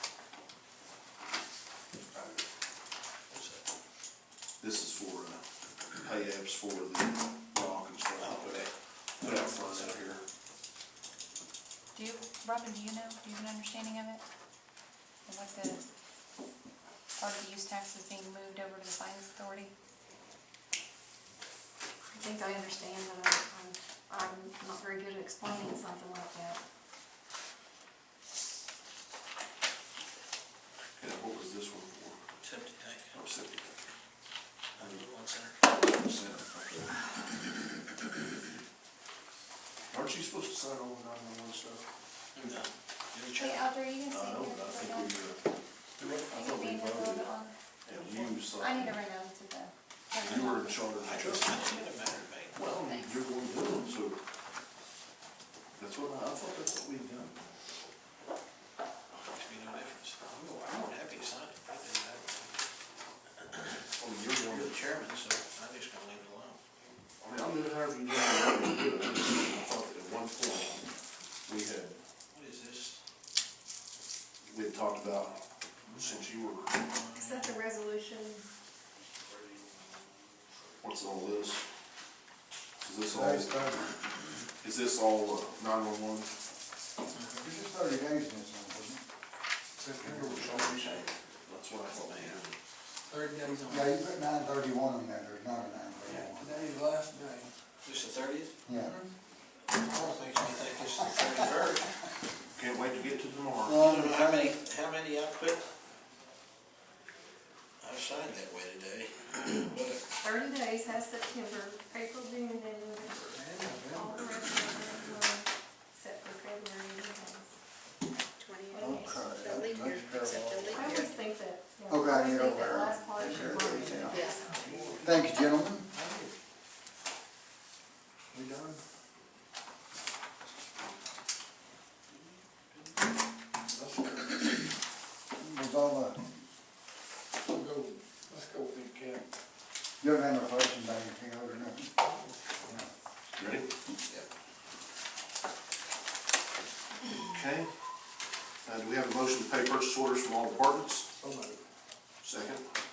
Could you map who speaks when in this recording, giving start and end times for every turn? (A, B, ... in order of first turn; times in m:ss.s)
0:03.3-0:03.6 A
0:04.6-0:05.4 B
0:06.0-0:08.7 B
0:08.2-0:10.0 A
0:09.2-0:10.2 B
0:11.9-0:14.2 C
0:15.3-0:15.8 C
0:17.2-0:19.7 C
0:22.1-0:26.6 D
0:31.0-0:32.2 B
0:32.4-0:33.1 A
0:33.1-0:33.7 B
0:34.8-0:35.6 A
0:34.8-0:35.0 B
0:35.6-0:37.0 B
0:39.9-0:41.8 B
0:42.3-0:43.7 A
0:43.4-0:45.2 C
0:44.0-0:45.4 B
0:46.0-0:47.3 B
0:46.0-0:50.9 C
0:47.8-0:49.0 B
0:50.2-0:51.8 B
0:51.0-0:52.6 A
0:52.5-0:54.2 B
0:52.7-0:53.3 C
0:55.8-0:57.3 B
0:59.2-1:02.5 A
1:04.0-1:04.8 B
1:04.3-1:06.6 A
1:07.2-1:10.8 B
1:11.4-1:12.0 B
1:12.3-1:13.0 A
1:14.4-1:16.8 B
1:15.9-1:16.2 A
1:16.9-1:17.5 A
1:17.1-1:18.4 D
1:20.8-1:21.6 B
1:22.8-1:23.7 B
1:23.1-1:24.0 E
1:24.6-1:26.3 B
1:27.1-1:27.4 A
1:27.4-1:29.0 E
1:29.8-1:31.0 F
1:30.0-1:31.1 B
1:30.8-1:32.5 A
1:32.0-1:32.5 B
1:33.1-1:33.9 F
1:33.7-1:36.6 E
1:36.0-1:37.5 F
1:37.8-1:38.5 A
1:38.6-1:39.0 E
1:39.8-1:41.9 A
1:42.5-1:43.8 B
1:43.6-1:44.5 E
1:43.8-1:45.6 A
1:47.8-1:50.0 A
1:50.2-1:53.4 D
1:53.3-1:54.2 F
1:53.9-1:57.6 D
1:58.4-2:01.2 G
1:58.7-1:59.3 D
1:58.8-2:01.1 E
2:00.6-2:05.0 D
2:01.9-2:04.3 E
2:03.9-2:04.5 G
2:04.5-2:05.2 F
2:05.0-2:05.9 E
2:05.9-2:06.3 F
2:08.3-2:08.8 F
2:13.7-2:14.7 F
2:15.3-2:16.2 E
2:17.4-2:19.2 F
2:20.0-2:21.9 E
2:22.0-2:22.5 F
2:22.6-2:22.9 E
2:23.3-2:23.7 B
2:27.2-2:27.7 B
2:28.6-2:31.1 B
2:31.2-2:31.6 F
2:32.2-2:32.6 B